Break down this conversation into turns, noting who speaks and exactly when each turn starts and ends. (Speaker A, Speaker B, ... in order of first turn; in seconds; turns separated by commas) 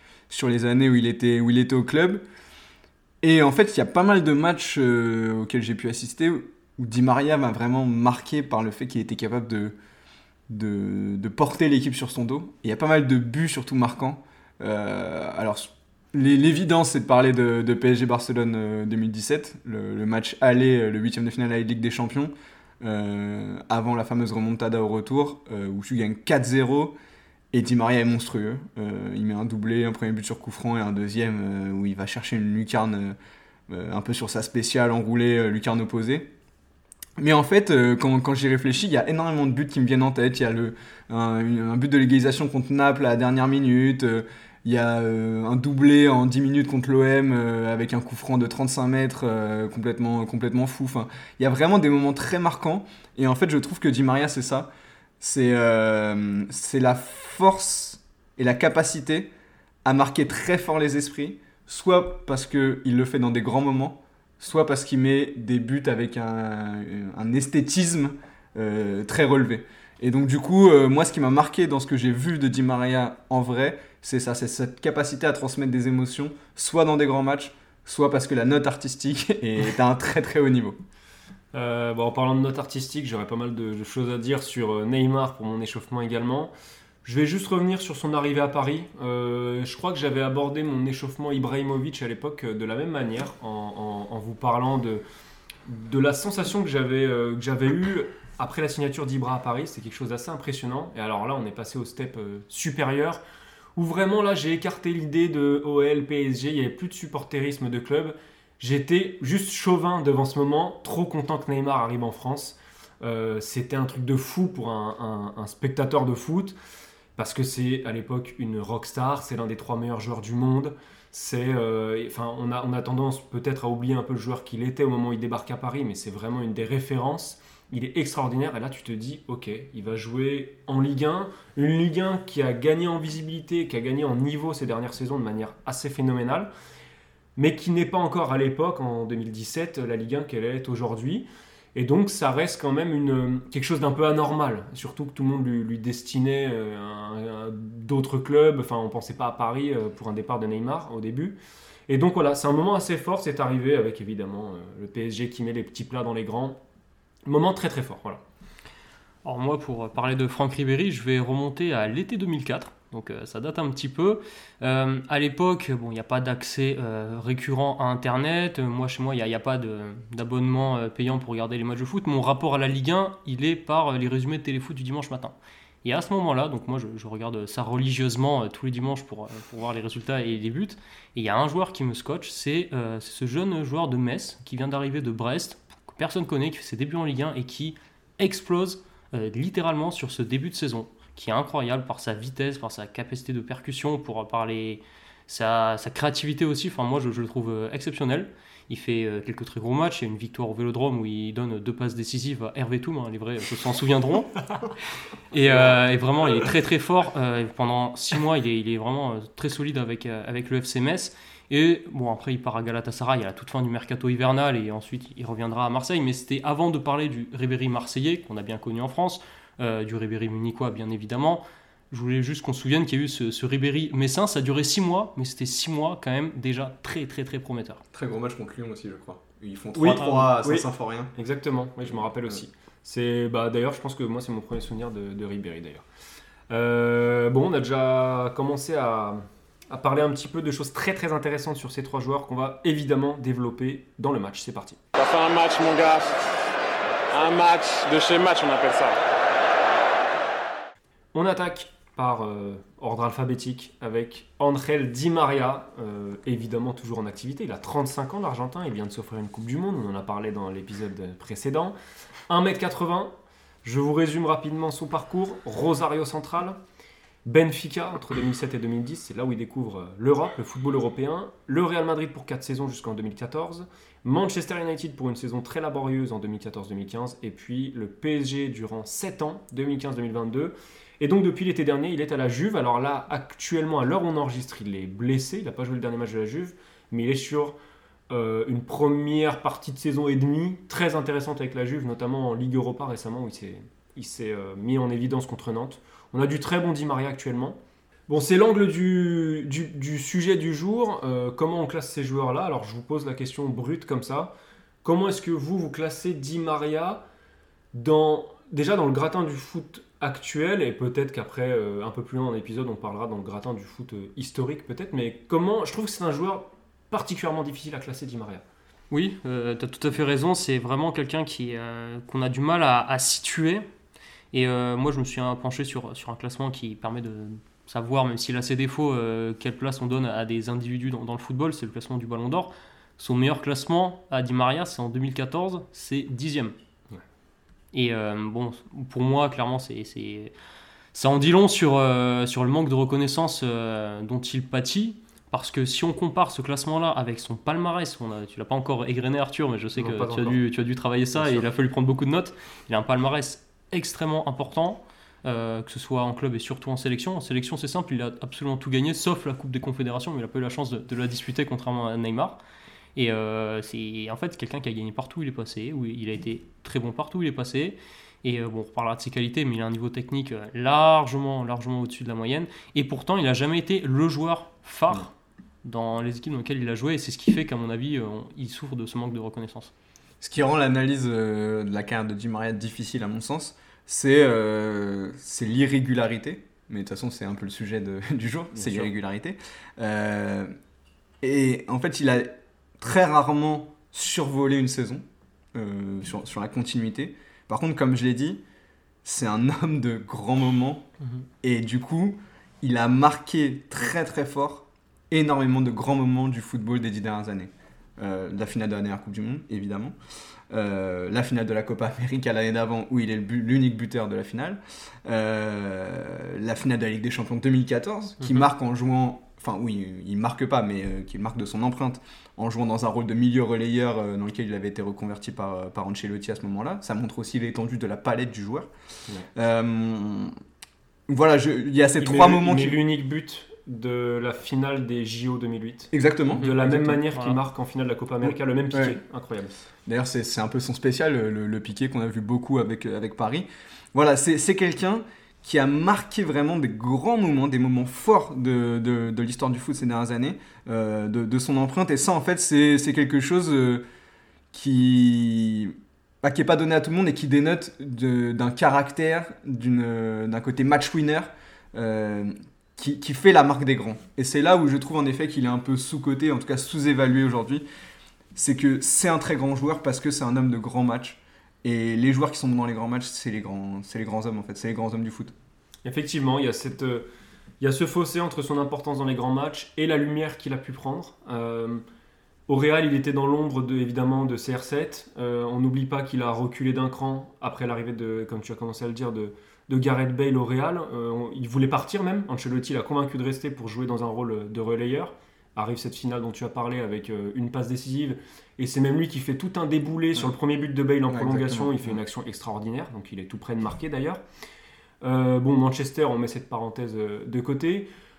Speaker A: 0.3-2.2, Speaker A: 3.2-9.8, Speaker A: 10.5-26.9, Speaker A: 27.5-33.1, Speaker A: 33.7-36.3, Speaker A: 37.2-54.7, Speaker A: 55.2-59.3, Speaker A: 59.8-80.8, Speaker B: 81.5-86.5, Speaker B: 87.0-95.0, Speaker B: 95.7-103.2, Speaker B: 103.8-116.5, Speaker B: 117.2-136.5, Speaker B: 137.3-151.3, Speaker B: 151.9-156.6, Speaker B: 157.2-158.2, Speaker C: 159.2-204.4, Speaker C: 205.3-227.8, Speaker A: 227.9-231.1, Speaker B: 229.8-235.8, Speaker B: 236.5-244.8, Speaker D: 244.9-246.1, Speaker D: 247.1-249.0, Speaker B: 251.1-261.8, Speaker B: 262.3-266.6, Speaker B: 267.2-287.6, Speaker B: 288.1-304.3, Speaker B: 304.8-307.0, Speaker B: 307.7-318.4, Speaker C: 318.9-323.6, Speaker C: 324.3-336.5, Speaker C: 337.7-340.3, Speaker C: 340.9-362.4, Speaker B: 349.8-350.4, Speaker B: 351.1-351.4, Speaker C: 362.9-375.1, Speaker C: 375.6-379.7, Speaker A: 380.2-390.5, Speaker B: 388.5-388.9, Speaker A: 391.2-395.0, Speaker A: 395.5-398.4, Speaker A: 399.0-400.9, Speaker A: 401.4-409.9, Speaker A: 410.5-428.7, Speaker A: 429.3-430.3, Speaker A: 431.1-432.8, Speaker B: 432.0-439.5, Speaker A: 435.9-437.0, Speaker A: 438.2-439.0, Speaker A: 439.9-453.8, Speaker A: 454.5-467.6, Speaker A: 468.3-475.3, Speaker B: 475.8-477.1, Speaker B: 477.6-481.8, Speaker B: 482.5-504.2, Speaker A: 501.1-501.9, Speaker B: 505.0-507.9